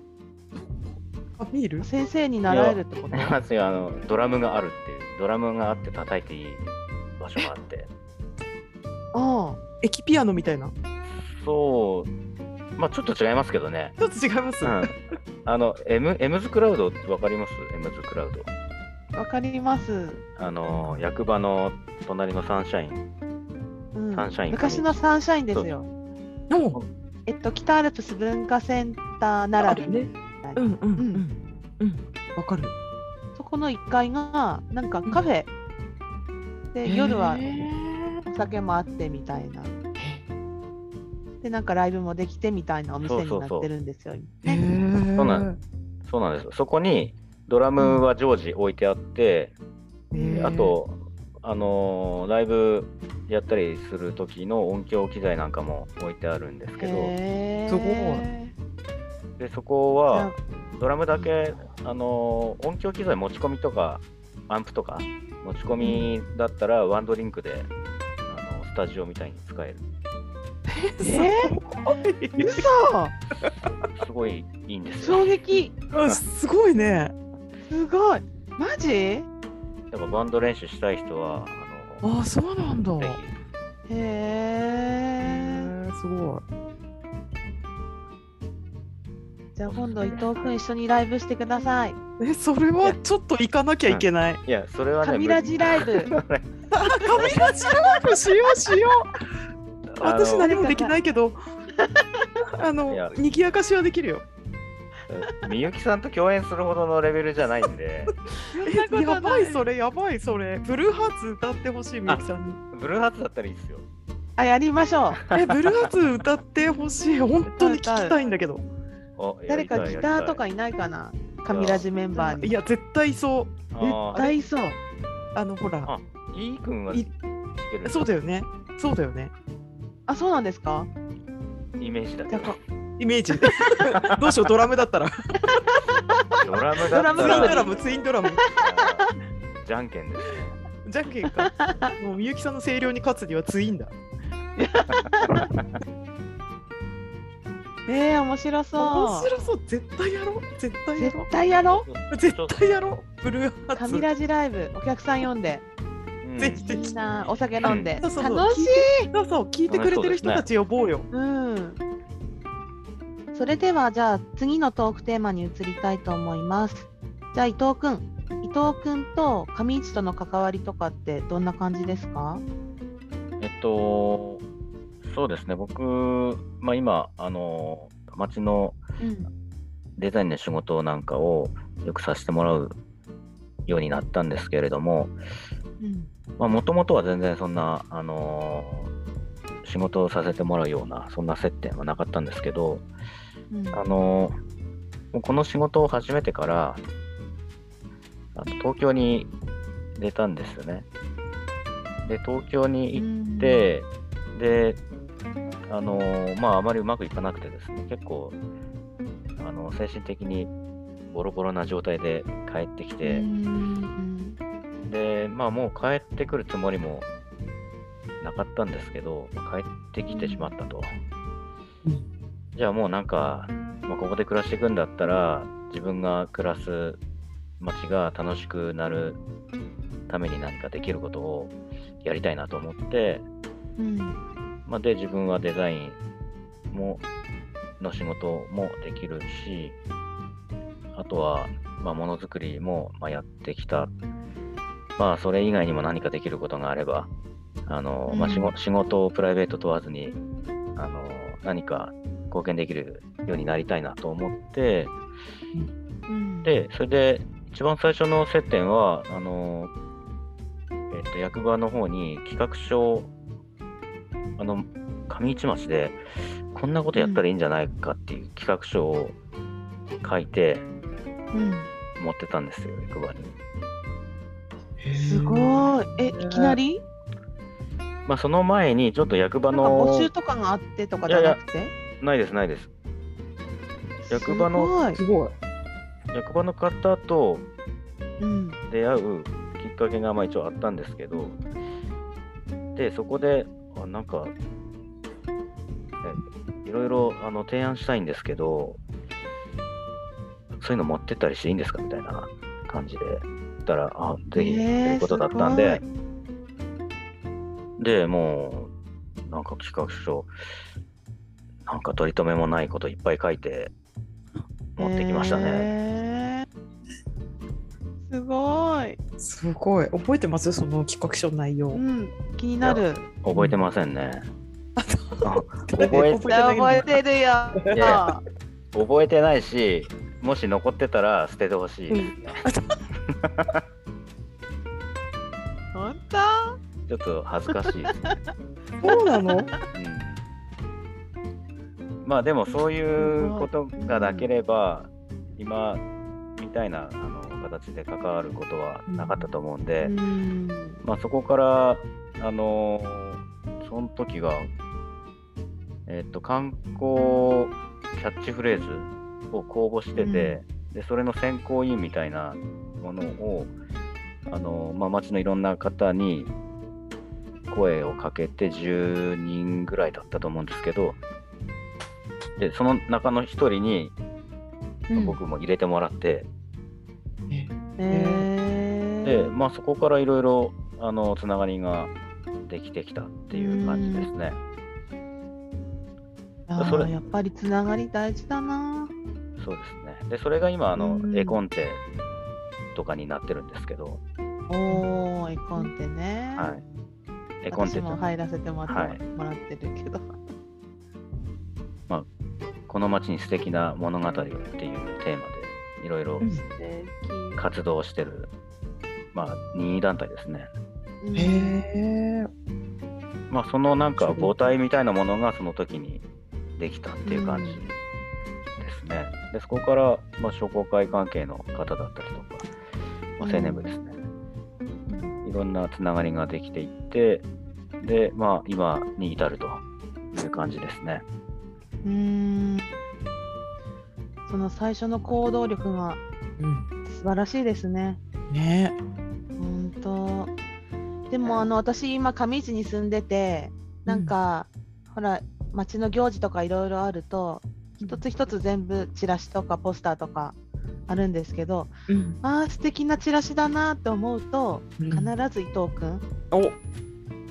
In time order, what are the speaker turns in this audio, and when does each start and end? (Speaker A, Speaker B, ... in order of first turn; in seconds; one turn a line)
Speaker A: 0.5-1.9
Speaker B: 1.8-3.3
Speaker C: 2.5-7.9
Speaker B: 9.1-9.6
Speaker A: 9.8-10.7
Speaker C: 11.2-12.1
Speaker C: 12.8-13.9
Speaker A: 14.0-14.9
Speaker C: 14.6-14.9
Speaker C: 15.4-18.5
Speaker B: 19.1-20.2
Speaker C: 20.4-23.0
Speaker A: 20.7-21.0
Speaker B: 23.9-25.9
Speaker C: 24.1-25.0
Speaker A: 26.5-26.8
Speaker B: 27.2-31.2
Speaker A: 29.6-32.7
Speaker B: 33.4-35.5
Speaker B: 36.7-37.5
Speaker A: 36.8-38.3
Speaker B: 38.2-39.7
Speaker A: 40.0-40.2
Speaker B: 41.4-44.6
Speaker C: 43.0-43.7
Speaker A: 44.4-45.6
Speaker C: 45.2-45.5
Speaker C: 46.0-49.5
Speaker A: 47.8-48.0
Speaker B: 50.1-50.5
Speaker A: 50.1-50.8
Speaker C: 50.3-57.1
Speaker B: 56.8-58.5
Speaker A: 57.7-58.2
Speaker C: 59.4-67.7
Speaker B: 60.1-60.4
Speaker C: 68.3-69.8
Speaker A: 70.8-72.7
Speaker B: 71.0-71.5
Speaker B: 72.4-73.1
Speaker C: 73.9-75.3
Speaker B: 75.0-75.7
Speaker A: 75.9-77.1
Speaker B: 77.7-79.2
Speaker C: 79.9-82.1
Speaker A: 82.0-83.2
Speaker C: 82.9-83.3
Speaker B: 83.9-85.7
Speaker C: 85.2-85.5
Speaker A: 85.5-86.4
Speaker B: 89.5-92.0
Speaker C: 89.7-90.5
Speaker A: 92.2-94.4
Speaker C: 93.8-96.5
Speaker B: 95.0-96.1
Speaker A: 96.7-99.0
Speaker C: 97.1-97.6
Speaker B: 97.1-97.4
Speaker C: 99.9-100.5
Speaker A: 100.0-101.4
Speaker B: 100.3-100.9
Speaker B: 101.8-102.2
Speaker A: 102.6-104.2
Speaker C: 102.9-103.1
Speaker C: 105.1-108.2
Speaker B: 108.5-109.7
Speaker A: 108.6-112.6
Speaker C: 112.0-113.8
Speaker B: 114.4-115.2
Speaker A: 115.3-118.6
Speaker B: 117.5-118.2
Speaker C: 119.2-120.4
Speaker B: 119.5-122.6
Speaker C: 121.5-121.9
Speaker A: 122.1-124.3
Speaker C: 123.7-124.3
Speaker B: 124.1-124.8
Speaker A: 125.3-125.9
Speaker C: 125.8-128.1
Speaker A: 127.8-129.3
Speaker B: 130.1-130.9
Speaker C: 131.8-132.6
Speaker B: 132.3-132.6
Speaker A: 133.0-135.6
Speaker C: 133.9-134.3
Speaker B: 136.3-137.8
Speaker C: 136.4-139.1
Speaker A: 137.1-138.4
Speaker B: 138.3-139.1
Speaker C: 139.6-140.6
Speaker A: 140.8-143.9
Speaker B: 141.4-141.9
Speaker B: 144.6-145.5
Speaker B: 147.8-149.3
Speaker A: 148.8-151.3
Speaker B: 150.9-151.8
Speaker C: 151.3-152.7
Speaker A: 152.1-154.1
Speaker B: 153.7-155.6
Speaker C: 156.2-156.6
Speaker A: 156.4-156.9
Speaker B: 156.5-159.1
Speaker C: 157.6-157.9
Speaker A: 157.6-161.1
Speaker C: 159.7-160.5
Speaker B: 161.1-161.8
Speaker B: 163.3-172.4
Speaker C: 173.4-174.4
Speaker C: 175.0-178.8
Speaker B: 179.0-179.3
Speaker C: 180.0-182.8
Speaker C: 183.7-185.1
Speaker B: 185.8-186.1
Speaker C: 186.4-188.9
Speaker C: 189.6-192.8
Speaker B: 193.5-193.8
Speaker C: 193.7-194.3
Speaker C: 195.1-196.8
Speaker C: 198.3-199.3
Speaker C: 200.0-200.8
Speaker C: 202.1-204.8
Speaker B: 202.9-203.7
Speaker C: 205.7-208.3
Speaker C: 209.4-210.5
Speaker C: 211.1-213.3
Speaker B: 213.0-214.4
Speaker C: 214.8-217.1
Speaker C: 218.2-220.9
Speaker B: 220.1-220.6
Speaker C: 222.5-227.0
Speaker C: 227.6-229.2
Speaker C: 230.1-233.2
Speaker B: 233.8-234.2
Speaker C: 234.7-236.0
Speaker C: 236.7-237.0
Speaker C: 237.8-239.8
Speaker C: 240.9-243.9
Speaker C: 245.0-247.1
Speaker C: 247.7-250.2
Speaker B: 248.1-248.5
Speaker C: 250.8-254.9
Speaker B: 256.1-256.6
Speaker C: 256.4-259.7
Speaker C: 260.9-263.1
Speaker C: 264.4-266.0
Speaker C: 266.5-269.1
Speaker B: 266.9-267.2
Speaker C: 270.0-270.6
Speaker B: 271.3-271.7
Speaker C: 272.0-273.3
Speaker A: 274.8-276.6
Speaker B: 274.9-276.8
Speaker C: 278.1-280.1
Speaker B: 279.5-281.7
Speaker C: 281.1-281.4
Speaker C: 282.0-282.7
Speaker B: 284.0-285.0
Speaker C: 284.1-284.7
Speaker A: 284.9-285.4
Speaker C: 286.1-287.5
Speaker B: 288.2-288.6
Speaker C: 288.7-291.4
Speaker C: 292.8-294.3
Speaker C: 296.0-298.8
Speaker C: 300.6-305.8
Speaker B: 304.3-305.8
Speaker C: 307.8-308.7
Speaker C: 309.2-310.3
Speaker C: 311.6-313.7
Speaker C: 314.8-315.7
Speaker B: 314.8-316.4
Speaker B: 318.0-319.0
Speaker A: 319.2-321.8
Speaker B: 321.7-323.0
Speaker C: 322.6-324.3
Speaker A: 323.3-323.6
Speaker A: 324.8-326.9
Speaker C: 325.2-326.2
Speaker B: 326.2-328.2
Speaker A: 327.7-328.0
Speaker C: 327.7-328.0
Speaker C: 328.7-332.4
Speaker A: 331.9-332.8
Speaker C: 333.1-333.6
Speaker B: 335.7-336.6
Speaker C: 336.9-337.9
Speaker A: 338.8-339.5
Speaker B: 338.8-339.6
Speaker C: 339.7-340.2
Speaker C: 342.0-345.8
Speaker B: 343.0-344.3
Speaker C: 346.4-349.9
Speaker A: 348.9-349.2
Speaker B: 349.8-350.8
Speaker C: 350.8-354.5
Speaker C: 355.9-363.5
Speaker B: 359.9-360.4
Speaker C: 364.3-366.3
Speaker C: 367.5-371.0
Speaker C: 372.4-373.9
Speaker B: 374.9-375.2
Speaker C: 374.9-376.3
Speaker A: 377.3-378.3
Speaker B: 377.8-379.3
Speaker C: 379.0-381.9
Speaker C: 382.4-384.4
Speaker B: 383.3-384.1
Speaker B: 386.5-388.9
Speaker C: 386.6-386.9
Speaker C: 389.4-391.8
Speaker A: 390.8-391.3
Speaker C: 392.7-394.0
Speaker B: 394.5-396.5
Speaker A: 394.7-395.0
Speaker C: 396.3-396.6
Speaker C: 397.4-398.1
Speaker B: 397.5-400.1
Speaker C: 398.6-399.0
Speaker C: 402.7-406.3
Speaker B: 406.5-407.4
Speaker C: 407.3-408.3
Speaker C: 409.1-410.5
Speaker B: 411.0-411.6
Speaker A: 411.1-412.3
Speaker C: 413.3-416.0
Speaker A: 414.0-414.4
Speaker C: 416.6-417.7
Speaker B: 417.1-417.6
Speaker C: 418.6-422.5
Speaker C: 423.2-424.0
Speaker B: 423.2-423.7
Speaker B: 424.9-425.1
Speaker C: 425.2-427.3
Speaker C: 427.8-431.0
Speaker B: 431.8-432.7
Speaker B: 434.3-436.0
Speaker A: 436.4-436.7
Speaker B: 436.8-438.0
Speaker A: 438.3-438.8
Speaker B: 439.4-440.3
Speaker C: 441.1-441.5
Speaker B: 441.1-450.4
Speaker A: 443.9-444.1
Speaker A: 447.8-448.0
Speaker B: 450.9-451.7
Speaker A: 451.9-452.2
Speaker B: 452.2-456.0
Speaker A: 454.8-455.1
Speaker A: 456.3-456.6